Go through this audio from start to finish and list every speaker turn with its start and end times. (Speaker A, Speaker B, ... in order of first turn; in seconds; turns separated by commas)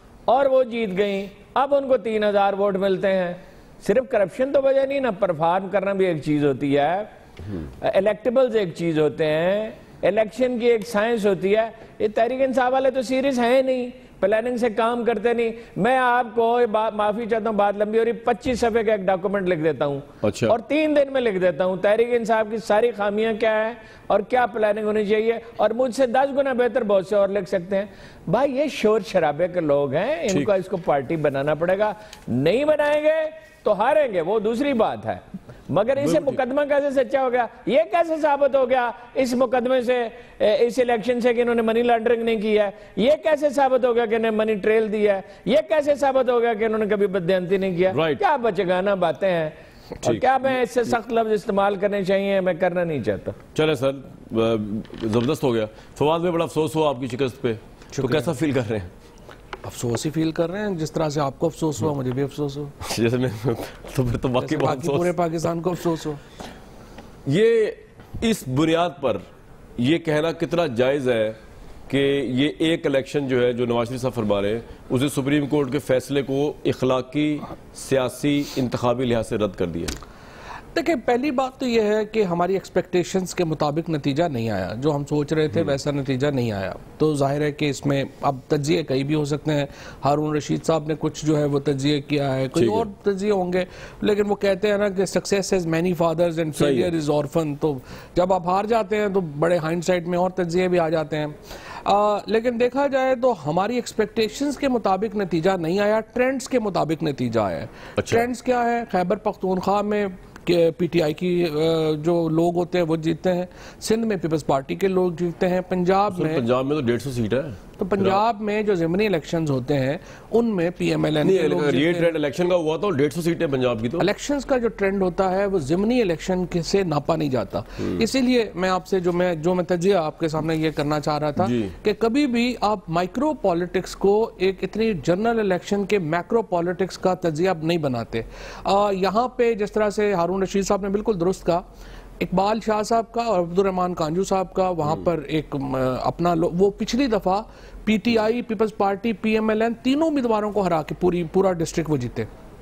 Speaker A: 0.3-7.1, Speaker A: 7.8-53.4, Speaker B: 20.2-20.6, Speaker B: 36.0-36.3, Speaker B: 47.9-48.2, Speaker B: 53.5-58.9, Speaker C: 57.9-58.3, Speaker C: 59.6-62.7, Speaker B: 62.8-65.1, Speaker C: 64.4-66.2, Speaker B: 67.2-69.2, Speaker B: 69.8-71.4, Speaker B: 71.9-79.9, Speaker C: 80.7-116.4, Speaker B: 92.5-92.8, Speaker B: 96.6-96.9, Speaker B: 108.0-108.2, Speaker B: 116.1-118.2, Speaker C: 117.8-122.1, Speaker B: 121.2-124.0, Speaker C: 124.0-141.6, Speaker B: 131.4-131.7, Speaker C: 142.2-152.3